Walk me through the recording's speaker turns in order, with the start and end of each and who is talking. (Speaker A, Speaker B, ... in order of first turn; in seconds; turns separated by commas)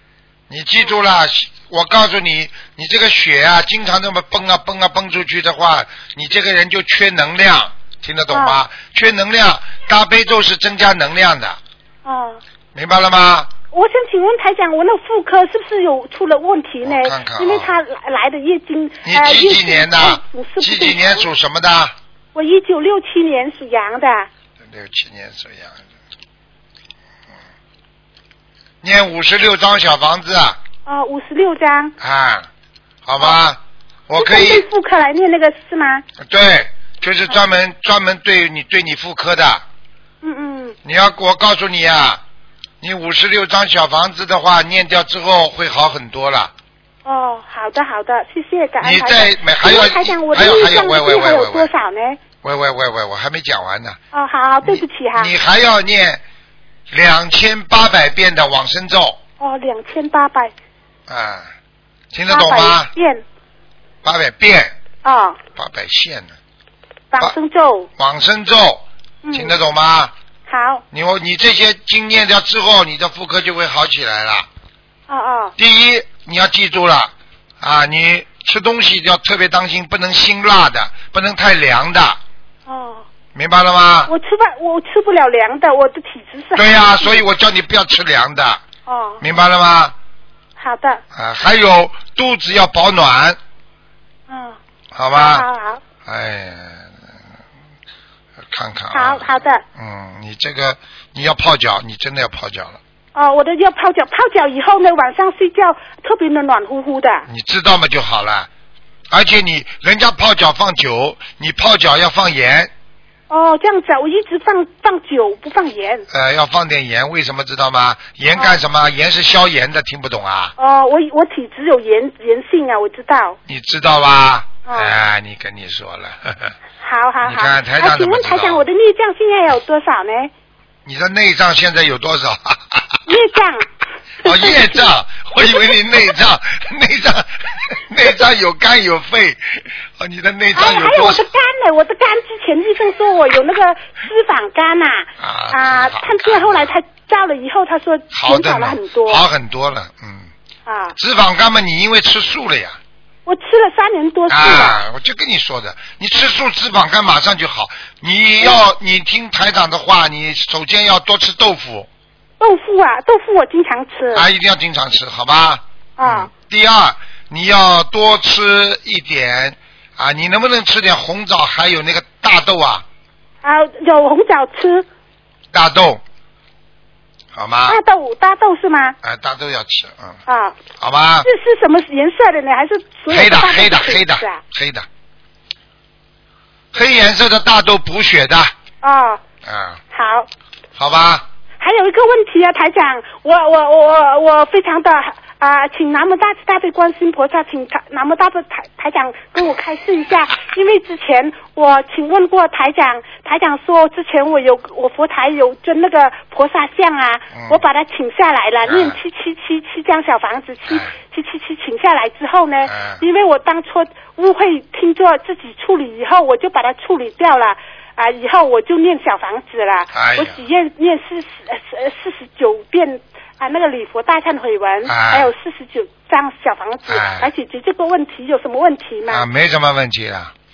Speaker A: 0.5-11.6, Speaker B: 8.3-8.6, Speaker B: 12.0-12.4, Speaker A: 12.7-13.5, Speaker B: 13.7-21.3, Speaker A: 16.8-17.8, Speaker A: 19.0-21.9, Speaker B: 22.3-24.3, Speaker A: 24.6-25.8, Speaker A: 28.8-30.6, Speaker B: 30.9-31.9, Speaker A: 32.0-32.5, Speaker A: 33.0-34.6, Speaker B: 34.2-36.0, Speaker A: 36.2-39.6, Speaker B: 40.2-40.8, Speaker A: 40.8-42.2, Speaker A: 42.8-46.5, Speaker B: 47.0-52.2, Speaker A: 48.8-51.7, Speaker A: 52.4-54.0, Speaker B: 54.1-55.3, Speaker A: 54.6-56.2, Speaker A: 56.9-59.2, Speaker B: 59.4-60.5, Speaker A: 61.1-61.5, Speaker A: 62.1-62.9, Speaker B: 62.3-63.2, Speaker A: 64.0-64.7, Speaker B: 65.0-65.4, Speaker A: 65.5-66.3, Speaker B: 67.1-67.9, Speaker A: 68.0-70.1, Speaker B: 69.2-69.5, Speaker B: 70.5-70.8, Speaker A: 70.9-74.5, Speaker B: 75.1-75.5, Speaker A: 75.6-82.2, Speaker B: 82.7-83.0, Speaker A: 83.3-84.1, Speaker B: 84.1-87.2, Speaker A: 86.5-88.6, Speaker B: 88.9-89.2, Speaker A: 89.2-89.9, Speaker B: 90.6-91.0, Speaker A: 91.1-93.4, Speaker B: 94.3-94.6, Speaker A: 94.9-95.5, Speaker B: 95.1-95.8, Speaker A: 96.0-97.0, Speaker A: 98.5-102.8, Speaker B: 98.9-99.6, Speaker B: 103.1-107.2, Speaker A: 107.2-108.5, Speaker A: 109.1-112.7, Speaker B: 113.3-116.0, Speaker A: 116.1-120.5, Speaker B: 120.6-123.4, Speaker A: 123.5-126.5, Speaker B: 124.7-124.9, Speaker B: 126.8-130.3, Speaker A: 127.2-128.6, Speaker A: 130.8-133.0, Speaker B: 133.1-133.7, Speaker B: 134.2-134.9, Speaker A: 134.2-141.2, Speaker B: 140.5-149.2, Speaker A: 145.2-146.7, Speaker A: 148.1-150.3, Speaker B: 150.7-150.9, Speaker A: 150.9-152.8, Speaker B: 153.2-154.8, Speaker A: 154.3-161.9, Speaker B: 162.4-164.3, Speaker A: 164.1-172.8, Speaker B: 166.0-166.3, Speaker B: 173.4-174.9, Speaker A: 175.5-176.0, Speaker A: 177.3-177.8, Speaker B: 177.7-178.9, Speaker A: 179.0-180.2, Speaker B: 180.3-180.6, Speaker A: 180.8-181.3, Speaker B: 181.2-184.4, Speaker A: 183.1-184.8, Speaker A: 186.7-188.5, Speaker B: 188.8-189.2, Speaker A: 189.4-189.8, Speaker B: 189.9-190.3, Speaker A: 190.8-191.2, Speaker B: 191.6-229.2, Speaker A: 207.3-207.6, Speaker A: 208.6-209.0, Speaker A: 210.7-210.9, Speaker A: 212.6-213.0, Speaker A: 219.9-220.4, Speaker A: 224.8-225.3, Speaker A: 226.9-227.3, Speaker A: 229.1-230.3